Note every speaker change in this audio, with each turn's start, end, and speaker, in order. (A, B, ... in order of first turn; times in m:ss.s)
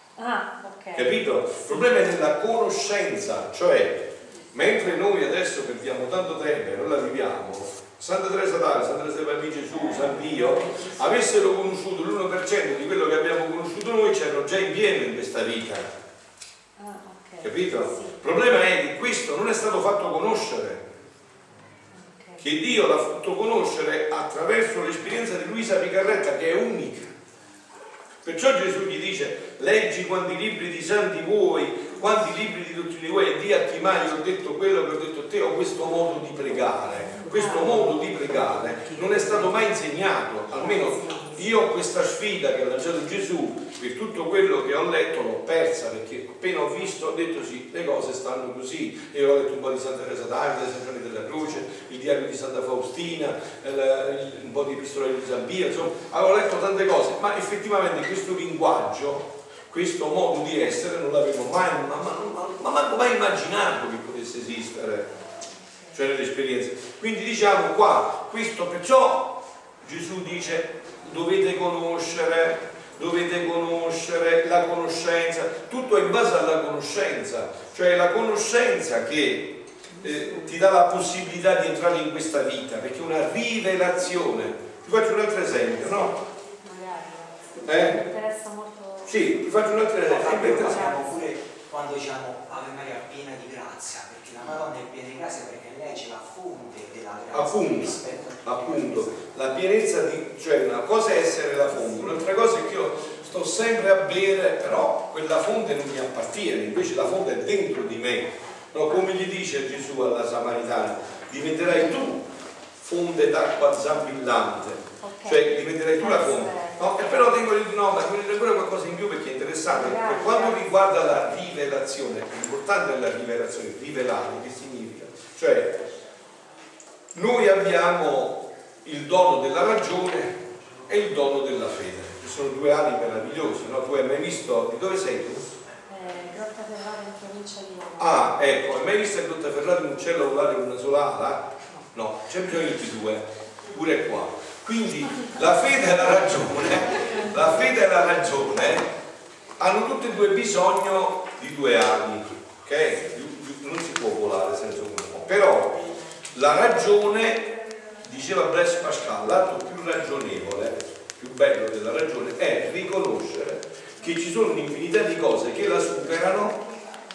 0:00.2-0:01.1 A
0:00.9-0:15.9 B
0:09.8-0:11.3 A
0:16.8-0:18.2 A
0:17.4-0:20.9 B
0:21.9-0:22.4 A
0:22.4-0:27.1 B
0:28.2-1:05.1 B
0:37.3-0:37.7 A
1:05.9-1:26.2 B
1:19.9-1:20.5 A
1:26.1-1:29.3 A
1:27.6-1:28.0 B
1:29.0-1:30.9 B
1:30.0-1:39.3 C
1:30.1-1:31.2 A
1:37.3-1:52.3 B
1:52.8-2:05.8 B
1:55.0-1:57.4 A
1:59.7-2:01.4 A
2:07.1-2:15.5 B
2:15.9-2:18.3 A
2:18.0-2:28.9 B
2:25.2-2:25.5 A
2:29.6-2:46.6 B